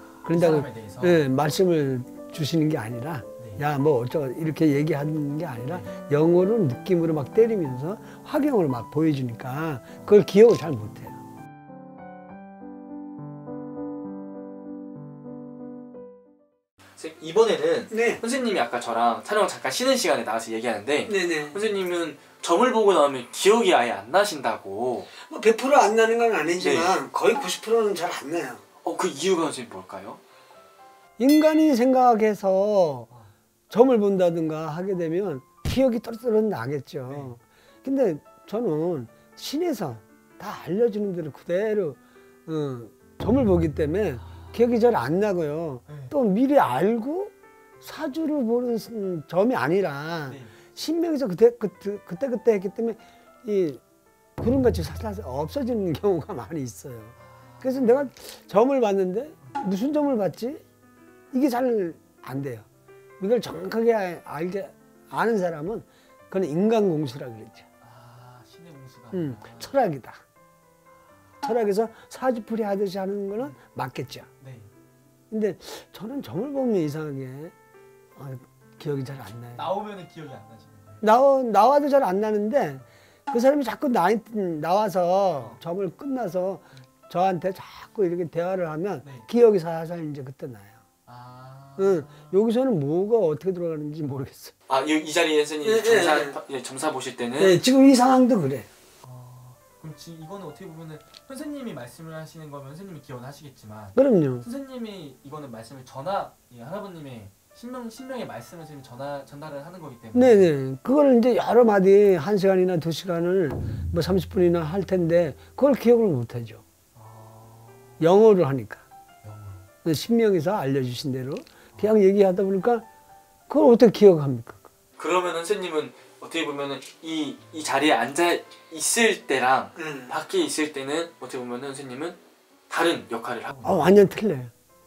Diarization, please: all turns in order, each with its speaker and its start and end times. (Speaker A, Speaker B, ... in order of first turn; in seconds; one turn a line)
Speaker A: 0.1-1.2
Speaker B: 0.2-11.2
Speaker A: 3.4-3.6
Speaker A: 17.0-25.1
Speaker B: 17.9-18.2
Speaker B: 21.1-21.6
Speaker B: 25.2-28.6
Speaker A: 26.6-27.0
Speaker A: 28.8-30.2
Speaker B: 31.2-33.1
Speaker B: 33.7-53.8
Speaker A: 37.0-37.3
Speaker A: 45.9-46.1
Speaker A: 50.2-50.6
Speaker B: 54.4-60.6
Speaker A: 57.2-58.1
Speaker B: 61.3-62.6
Speaker B: 63.2-67.7
Speaker A: 67.8-69.8
Speaker B: 69.1-70.2
Speaker B: 71.4-74.3
Speaker A: 74.4-74.7
Speaker B: 75.3-77.5
Speaker B: 78.2-79.7
Speaker A: 79.5-81.0
Speaker B: 81.0-90.8
Speaker A: 91.1-92.4
Speaker B: 91.8-94.5
Speaker A: 94.7-97.6
Speaker B: 95.6-96.4
Speaker B: 97.4-98.7
Speaker A: 99.0-110.5
Speaker B: 104.0-104.5
Speaker B: 110.1-116.6
Speaker A: 117.0-118.0
Speaker B: 118.0-118.8
Speaker A: 119.2-119.7
Speaker B: 119.8-122.8
Speaker B: 123.5-124.7
Speaker A: 125.0-132.2
Speaker B: 129.8-130.1
Speaker A: 132.7-134.0
Speaker B: 133.6-134.5